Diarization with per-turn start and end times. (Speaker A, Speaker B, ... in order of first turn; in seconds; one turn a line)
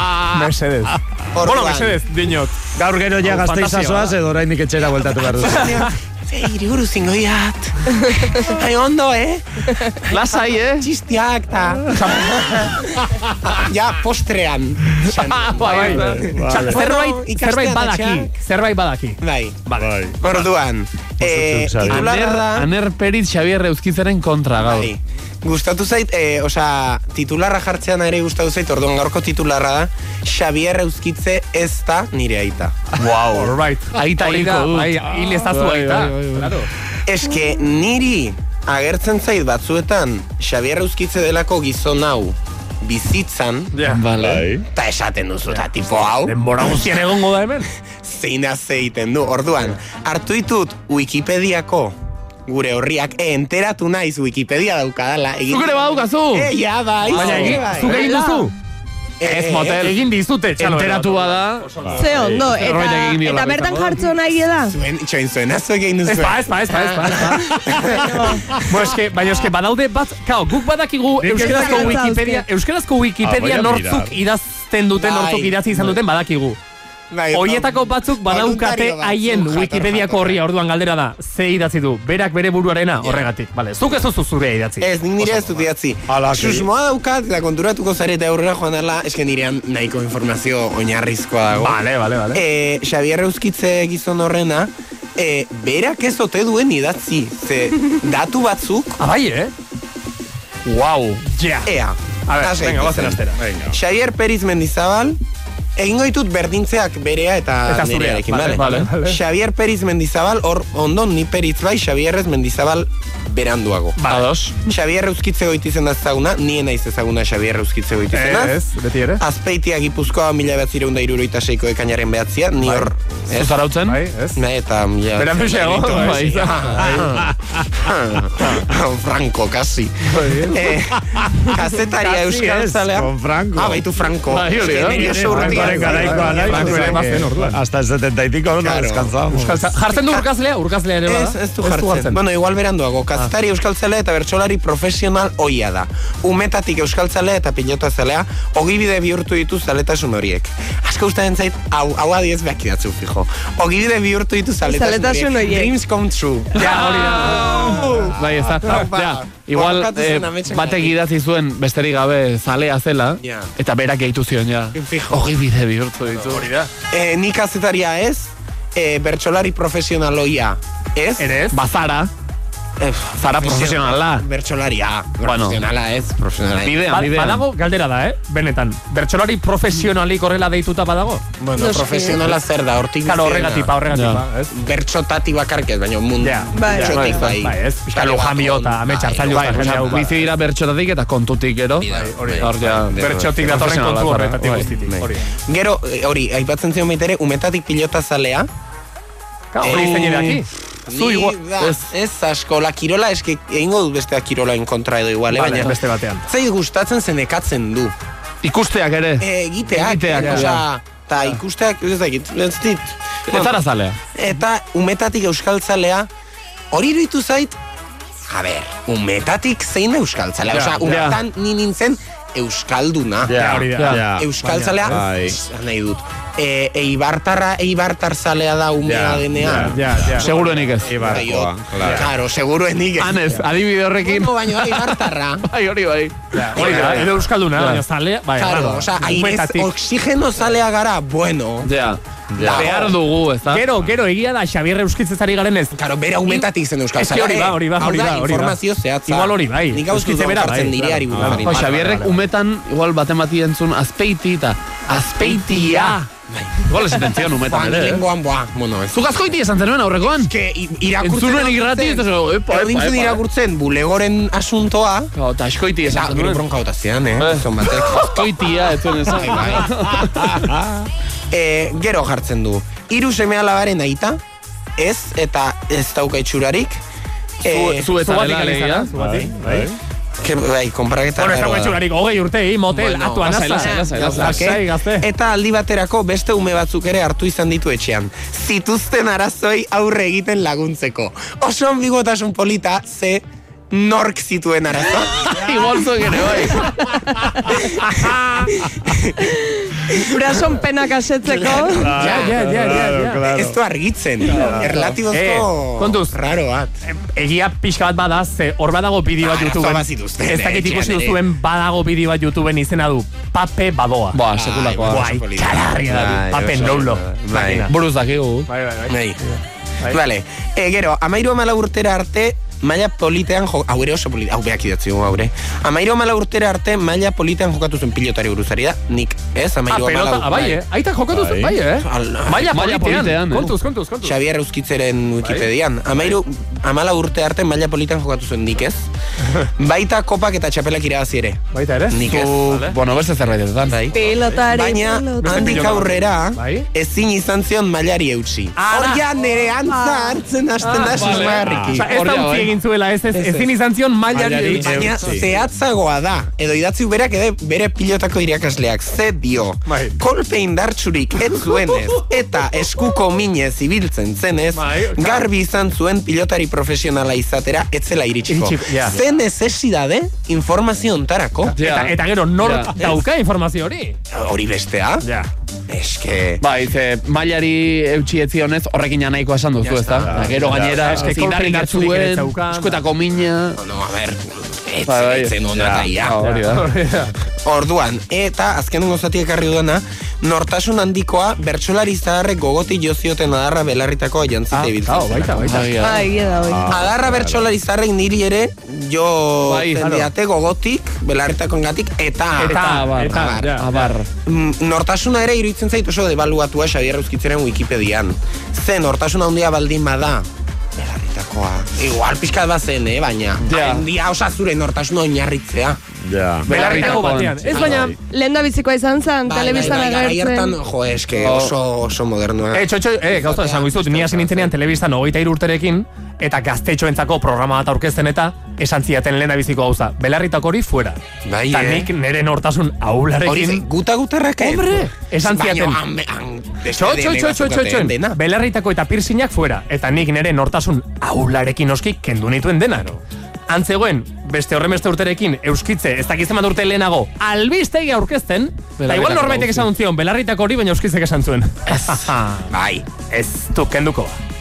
Speaker A: 0.3-4.2
Speaker B: 1.3-2.0
Speaker C: 2.7-5.8
Speaker B: 5.2-18.4
Speaker A: 5.5-5.9
Speaker D: 8.0-8.5
Speaker E: 10.1-10.9
Speaker A: 11.9-12.3
Speaker E: 15.2-16.1
Speaker A: 15.6-20.4
Speaker C: 16.0-16.8
Speaker B: 19.2-19.6
Speaker C: 19.8-20.2
Speaker B: 20.2-22.7
Speaker C: 21.2-22.1
Speaker E: 21.9-24.9
Speaker B: 24.6-32.9
Speaker E: 33.0-36.5
Speaker A: 33.3-36.7
Speaker B: 37.0-43.7
Speaker A: 43.7-44.0
Speaker E: 43.9-44.5
Speaker C: 44.1-44.6
Speaker B: 44.7-47.1
Speaker A: 46.2-47.7
Speaker B: 48.0-58.2
Speaker E: 55.5-56.5
Speaker E: 57.0-58.1
Speaker A: 57.1-58.5
Speaker D: 58.0-58.5
Speaker B: 59.2-59.9
Speaker E: 59.2-60.0
Speaker A: 59.8-61.7
Speaker E: 60.6-64.0
Speaker C: 61.8-62.5
Speaker D: 62.0-64.8
Speaker B: 64.7-68.6
Speaker A: 66.0-67.5
Speaker A: 68.5-76.6
Speaker D: 71.2-72.4
Speaker B: 71.4-72.0
Speaker C: 73.2-74.2
Speaker B: 75.0-75.9
Speaker B: 77.1-80.4
Speaker A: 77.3-85.7
Speaker B: 83.0-83.3
Speaker B: 84.8-91.8
Speaker C: 86.1-86.7
Speaker A: 91.5-92.4
Speaker B: 92.3-99.0
Speaker A: 99.0-99.5
Speaker E: 100.7-101.2
Speaker A: 101.2-101.7
Speaker B: 101.6-105.2
Speaker A: 102.3-103.4
Speaker C: 103.4-103.8
Speaker B: 105.8-114.0
Speaker A: 107.7-109.2
Speaker E: 108.5-108.9
Speaker A: 114.0-114.3
Speaker E: 114.1-114.6
Speaker B: 114.5-118.6
Speaker A: 118.1-119.2
Speaker B: 119.2-123.5
Speaker A: 122.6-122.8
Speaker E: 123.3-124.0
Speaker A: 123.8-124.4
Speaker B: 124.3-137.1
Speaker A: 125.2-127.2
Speaker E: 125.8-126.7
Speaker A: 130.1-130.6
Speaker C: 132.0-133.8
Speaker E: 134.3-136.0
Speaker A: 134.8-137.6
Speaker C: 134.9-139.7
Speaker B: 138.6-139.2
Speaker A: 139.3-142.2
Speaker B: 139.9-140.3
Speaker B: 141.1-161.0
Speaker D: 154.6-155.7
Speaker A: 156.5-158.1
Speaker E: 156.6-166.5
Speaker B: 163.2-163.5
Speaker B: 164.7-165.3
Speaker A: 166.1-166.7
Speaker B: 166.9-171.3
Speaker A: 171.2-171.6
Speaker E: 171.5-172.1
Speaker B: 172.8-176.8
Speaker E: 173.2-174.2
Speaker E: 175.2-175.6
Speaker E: 176.6-177.4
Speaker A: 176.9-181.2
Speaker B: 181.4-183.7
Speaker D: 181.6-182.2
Speaker A: 183.0-184.5
Speaker E: 183.9-184.2
Speaker B: 184.5-190.1
Speaker A: 186.2-190.3
Speaker D: 186.5-187.2
Speaker E: 186.7-187.4
Speaker E: 189.3-194.7
Speaker B: 191.8-193.3
Speaker A: 191.8-195.3
Speaker B: 194.8-198.5
Speaker A: 199.5-201.3
Speaker B: 199.6-200.3
Speaker E: 199.6-200.4
Speaker B: 200.9-205.7
Speaker E: 201.6-201.9
Speaker A: 205.3-206.2
Speaker B: 206.3-207.9
Speaker E: 208.4-210.6
Speaker B: 209.2-213.6
Speaker A: 210.1-210.5
Speaker E: 213.3-214.0
Speaker B: 214.1-216.1
Speaker B: 216.7-217.6
Speaker B: 218.3-223.4
Speaker A: 220.5-220.8
Speaker E: 220.8-221.2
Speaker C: 223.2-225.4
Speaker A: 223.3-225.0
Speaker E: 223.7-224.1
Speaker B: 224.2-233.4
Speaker C: 228.8-230.3
Speaker A: 229.6-230.3
Speaker E: 230.2-231.1
Speaker C: 230.8-232.1
Speaker E: 233.0-237.8
Speaker B: 234.0-235.4
Speaker A: 236.3-239.7
Speaker B: 236.5-237.1
Speaker B: 238.4-241.7
Speaker E: 241.6-243.6
Speaker C: 242.3-242.6
Speaker B: 242.4-242.9
Speaker A: 242.5-252.2
Speaker B: 245.7-251.7
Speaker C: 251.1-251.4
Speaker E: 251.4-255.9
Speaker A: 254.9-256.1
Speaker B: 255.3-259.4
Speaker E: 256.6-258.0
Speaker E: 258.9-260.3
Speaker B: 260.0-265.1
Speaker E: 261.0-263.2
Speaker E: 265.1-266.4
Speaker B: 265.8-269.7
Speaker E: 267.2-270.5
Speaker C: 270.2-270.9
Speaker B: 271.3-274.2
Speaker B: 274.8-276.8
Speaker B: 277.4-277.9
Speaker E: 277.4-278.9
Speaker A: 277.9-279.7
Speaker B: 279.0-279.2
Speaker C: 279.1-279.8
Speaker B: 280.2-281.8
Speaker A: 281.2-285.1
Speaker B: 282.7-295.4
Speaker E: 283.2-284.6
Speaker E: 295.1-296.7
Speaker C: 296.9-298.9
Speaker B: 297.5-299.3
Speaker D: 299.2-301.9
Speaker B: 301.2-306.7
Speaker C: 301.7-303.6
Speaker A: 301.9-303.3
Speaker C: 304.3-304.8
Speaker E: 304.3-305.0
Speaker A: 305.1-306.1
Speaker A: 306.8-314.2
Speaker B: 309.2-311.2
Speaker E: 314.1-315.1
Speaker B: 314.3-317.7
Speaker A: 314.8-317.7
Speaker E: 317.7-318.5
Speaker A: 318.5-320.0
Speaker B: 318.9-319.2
Speaker B: 319.9-330.6
Speaker A: 329.7-334.1
Speaker C: 331.1-331.6
Speaker B: 331.8-332.5
Speaker E: 332.5-333.5
Speaker B: 334.0-338.8
Speaker A: 335.2-335.5
Speaker B: 339.6-342.8
Speaker A: 341.5-342.7
Speaker E: 342.0-344.1
Speaker B: 343.6-351.9
Speaker D: 343.9-345.8
Speaker A: 345.2-346.7
Speaker A: 348.6-349.0
Speaker D: 349.6-350.2
Speaker A: 350.6-355.1
Speaker E: 350.9-352.5
Speaker C: 351.3-351.8
Speaker B: 353.1-353.5
Speaker C: 354.1-355.3
Speaker B: 354.6-371.5
Speaker A: 359.6-359.9
Speaker A: 364.5-365.3
Speaker A: 368.3-369.0
Speaker A: 371.5-374.0
Speaker E: 371.6-372.7
Speaker B: 372.8-373.0
Speaker B: 374.1-375.0
Speaker A: 375.0-375.3
Speaker B: 375.7-376.4
Speaker E: 376.4-383.6
Speaker B: 379.6-380.6
Speaker C: 380.0-381.1
Speaker A: 380.3-382.8
Speaker B: 383.6-386.2
Speaker E: 384.9-385.4
Speaker C: 385.5-385.9
Speaker E: 385.9-386.7
Speaker A: 386.2-387.1
Speaker B: 387.4-396.1
Speaker A: 394.5-395.7
Speaker E: 395.4-396.1
Speaker D: 395.8-396.7
Speaker C: 396.4-397.5
Speaker B: 396.7-403.6
Speaker E: 399.4-399.9
Speaker A: 399.8-400.1
Speaker A: 402.4-403.9
Speaker E: 402.5-404.1
Speaker B: 404.2-415.8
Speaker E: 413.4-413.8
Speaker C: 416.0-416.6
Speaker E: 416.4-417.7
Speaker A: 416.5-417.9
Speaker B: 416.5-417.9
Speaker D: 417.5-420.6
Speaker C: 417.6-418.0
Speaker B: 419.2-424.5
Speaker E: 421.1-421.5
Speaker A: 422.5-433.6
Speaker B: 431.2-431.9
Speaker B: 433.2-438.2
Speaker A: 434.4-435.8
Speaker A: 436.7-452.5
Speaker E: 448.8-449.7
Speaker B: 451.7-452.9
Speaker A: 453.1-454.2